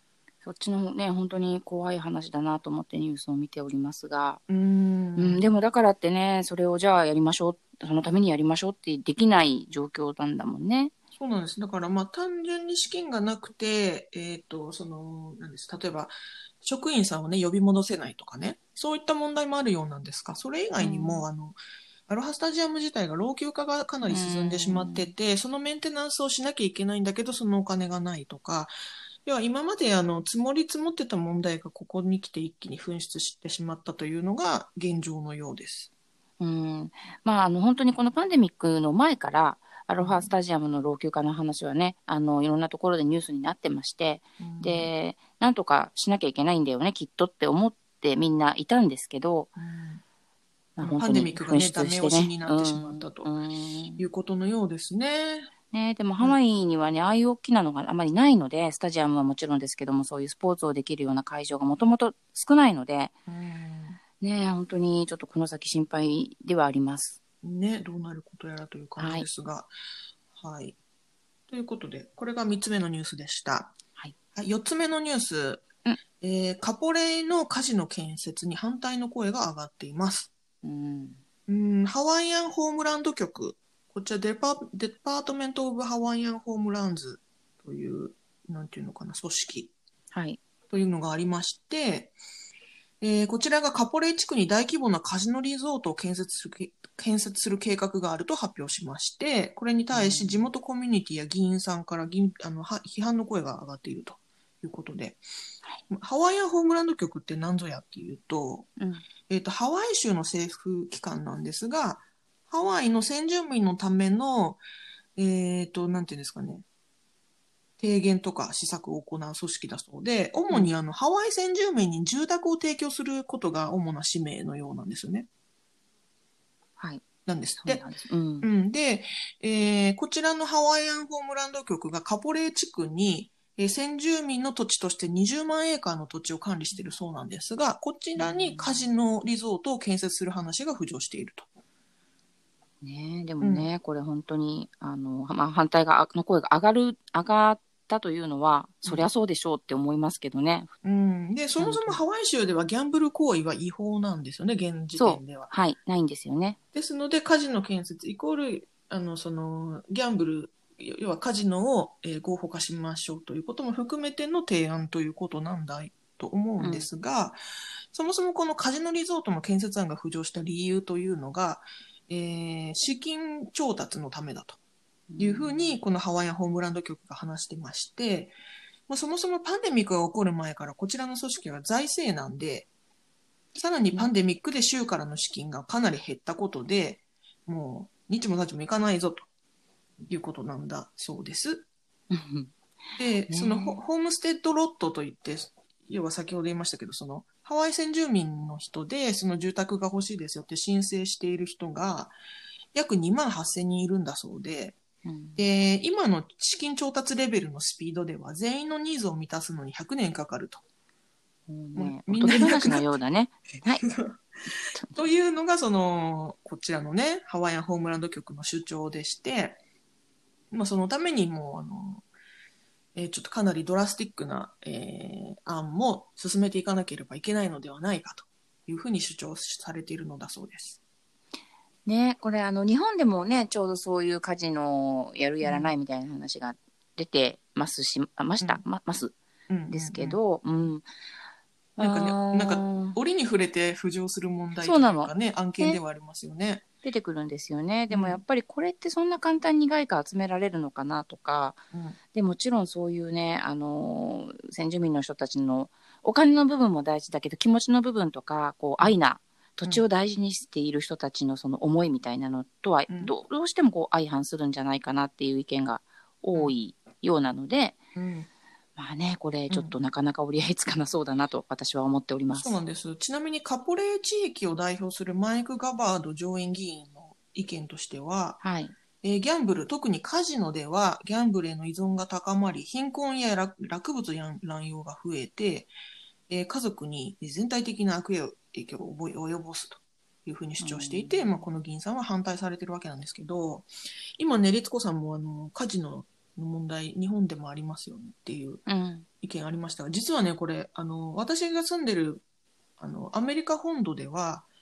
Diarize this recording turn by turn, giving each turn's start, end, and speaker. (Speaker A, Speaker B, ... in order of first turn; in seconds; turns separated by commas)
Speaker A: 0.4-4.4, Speaker B: 4.5-5.4, Speaker A: 5.2-10.9, Speaker B: 11.2-21.6, Speaker A: 20.8-21.2, Speaker B: 22.1-28.7, Speaker A: 24.1-25.1, Speaker B: 29.2-35.9, Speaker A: 36.4-49.5, Speaker B: 40.0-40.3, Speaker B: 44.4-44.9, Speaker B: 49.6-50.0, Speaker A: 50.8-54.0, Speaker B: 50.8-53.3, Speaker B: 54.0-55.5, Speaker A: 55.7-63.1, Speaker B: 63.3-64.0, Speaker A: 64.2-67.2, Speaker B: 67.4-69.7, Speaker A: 69.0-69.3, Speaker B: 70.3-70.8, Speaker B: 71.5-73.8, Speaker B: 74.3-75.7, Speaker B: 76.2-80.3, Speaker A: 80.6-81.2, Speaker B: 81.5-89.7, Speaker A: 90.1-90.4, Speaker B: 90.7-92.2, Speaker B: 93.0-105.2, Speaker A: 99.9-100.5, Speaker B: 105.9-108.7, Speaker A: 108.8-109.0, Speaker B: 109.3-114.6, Speaker B: 115.2-116.7, Speaker B: 117.8-125.3, Speaker A: 126.8-127.0, Speaker B: 127.3-127.9, Speaker A: 127.6-128.5, Speaker B: 128.4-141.5, Speaker A: 138.2-138.9, Speaker A: 142.8-150.7, Speaker B: 143.4-143.7, Speaker B: 148.8-149.1, Speaker B: 150.8-155.5, Speaker A: 151.6-152.0, Speaker A: 155.0-156.6, Speaker B: 156.7-167.4, Speaker A: 166.6-166.9, Speaker B: 167.9-174.6, Speaker A: 175.1-175.7, Speaker B: 175.2-178.3, Speaker B: 178.9-182.7, Speaker B: 183.6-189.3, Speaker B: 190.1-191.7, Speaker A: 192.1-192.5, Speaker B: 193.0-202.2, Speaker A: 193.3-193.8, Speaker B: 202.7-204.8, Speaker A: 205.0-205.4, Speaker B: 205.4-210.6, Speaker A: 211.5-213.9, Speaker B: 211.8-212.9, Speaker B: 213.8-219.6, Speaker A: 214.8-215.1, Speaker B: 220.5-222.1, Speaker B: 222.9-230.8, Speaker A: 231.9-239.1, Speaker B: 235.4-235.7, Speaker B: 239.5-240.2, Speaker A: 239.7-240.9, Speaker A: 241.8-243.0, Speaker B: 241.8-246.6, Speaker A: 244.6-245.8, Speaker A: 246.8-267.8, Speaker B: 247.9-248.2, Speaker B: 251.7-252.0, Speaker B: 262.9-263.1, Speaker B: 267.9-268.3, Speaker A: 268.8-272.6, Speaker B: 269.5-269.8, Speaker B: 272.3-278.4, Speaker A: 278.4-278.8, Speaker B: 279.0-285.7, Speaker B: 286.3-298.6, Speaker A: 290.6-291.4, Speaker A: 298.7-299.1, Speaker B: 299.2-302.2, Speaker B: 302.8-304.5